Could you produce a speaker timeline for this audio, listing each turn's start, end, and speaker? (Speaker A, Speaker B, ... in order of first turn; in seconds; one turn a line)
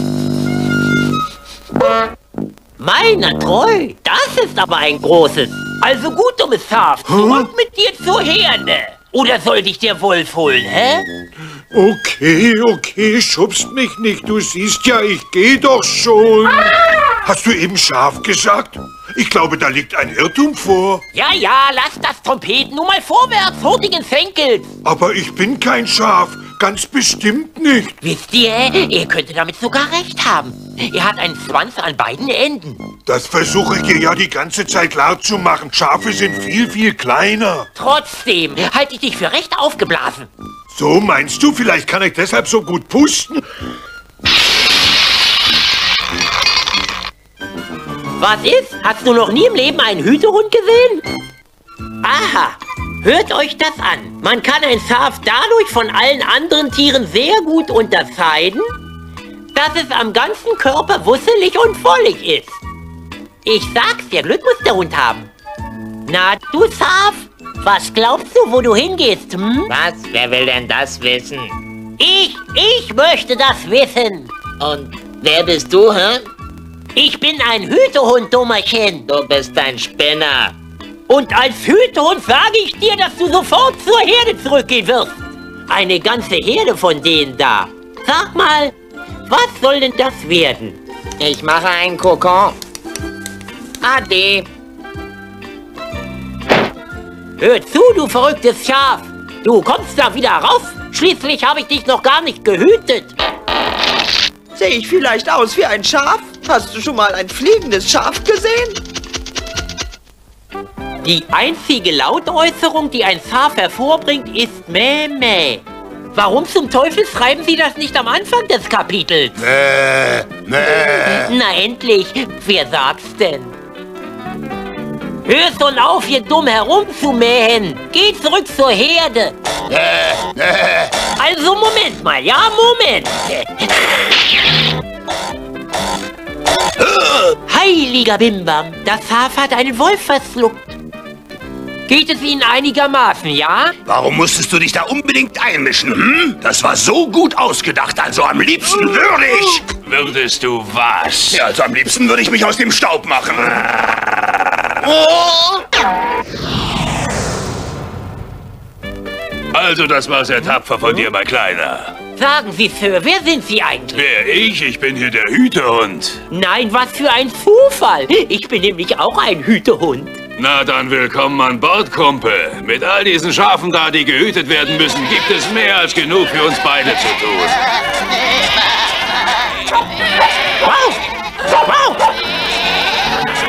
Speaker A: 2.8-11.1
Speaker B: 7.2-7.5
Speaker B: 11.7-21.0
Speaker A: 21.1-24.7
Speaker B: 24.8-27.9
Speaker A: 28.0-32.8
Speaker B: 33.1-37.7
Speaker A: 37.8-40.3
Speaker B: 40.7-43.4
Speaker A: 48.2-51.0
Speaker A: 52.0-58.7
Speaker A: 59.5-62.6
Speaker A: 63.4-65.3
Speaker A: 66.1-69.7
Speaker C: 69.7-71.5
Speaker A: 72.0-74.3
Speaker C: 74.6-76.3
Speaker A: 77.0-79.1
Speaker C: 79.1-80.5
Speaker A: 81.1-88.8
Speaker A: 89.3-90.8
Speaker C: 91.2-92.6
Speaker C: 93.8-94.5
Speaker A: 97.4-103.1
Speaker D: 104.5-108.8
Speaker A: 111.0-119.4
Speaker E: 119.5-120.8
Speaker A: 120.8-123.5
Speaker A: 125.2-129.3
Speaker E: 129.7-130.8
Speaker A: 131.2-133.7
Speaker A: 137.5-140.8
Speaker A: 141.9-143.8
Speaker E: 143.9-149.7
Speaker F: 149.8-151.5
Speaker E: 151.4-154.1
Speaker E: 154.9-155.3
Speaker F: 159.5-161.9
Speaker A: 162.2-164.1
Speaker F: 163.9-166.2
Speaker A: 166.3-170.2
Speaker F: 170.4-177.6
Speaker A: 180.6-182.0